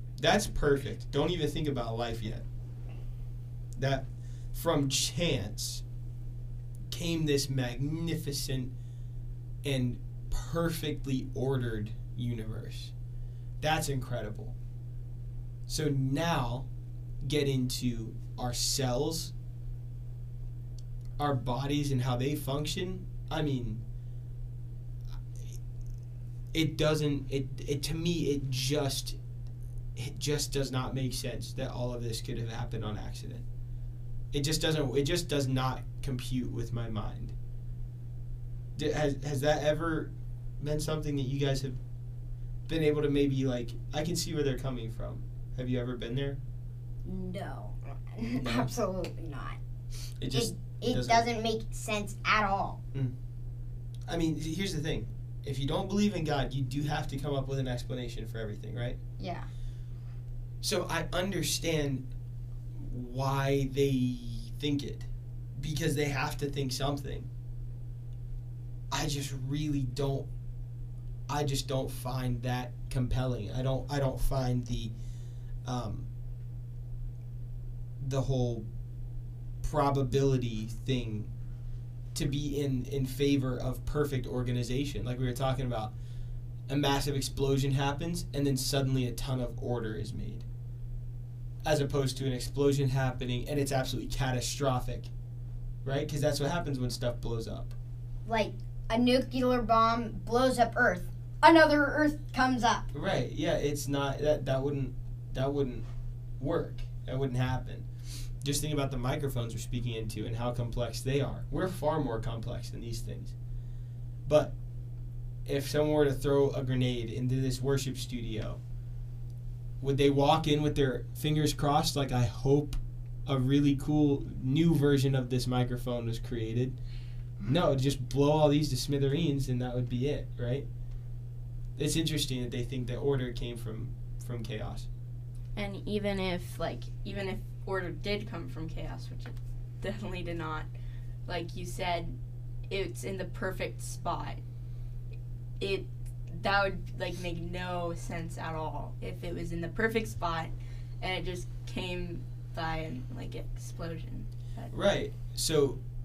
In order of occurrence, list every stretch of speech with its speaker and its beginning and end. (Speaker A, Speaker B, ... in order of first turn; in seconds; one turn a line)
Speaker A: 0.2-2.4
Speaker A: 3.8-5.8
Speaker A: 6.9-8.7
Speaker A: 9.6-12.9
Speaker A: 13.6-14.6
Speaker A: 15.7-16.7
Speaker A: 17.2-19.3
Speaker A: 21.2-23.8
Speaker A: 26.5-29.2
Speaker A: 29.9-33.4
Speaker A: 34.3-37.3
Speaker A: 38.8-41.8
Speaker A: 42.7-46.4
Speaker B: 47.0-49.6
Speaker A: 48.3-48.8
Speaker A: 50.2-51.3
Speaker B: 50.3-52.8
Speaker A: 54.1-59.0
Speaker B: 59.2-59.5
Speaker A: 60.6-62.1
Speaker A: 62.8-67.3
Speaker A: 68.9-70.3
Speaker A: 71.3-74.9
Speaker A: 75.6-76.1
Speaker A: 78.0-78.7
Speaker A: 79.6-81.3
Speaker A: 82.1-85.9
Speaker A: 86.7-90.5
Speaker A: 91.6-95.1
Speaker A: 95.8-97.7
Speaker B: 98.2-102.9
Speaker A: 102.9-105.8
Speaker A: 106.4-107.9
Speaker A: 108.4-113.3
Speaker A: 114.2-114.5
Speaker A: 115.5-118.6
Speaker A: 119.8-126.8
Speaker A: 127.4-130.7
Speaker A: 131.8-134.9
Speaker C: 135.5-140.7
Speaker C: 141.2-142.1
Speaker C: 142.7-144.4
Speaker C: 145.6-154.7
Speaker A: 154.7-155.8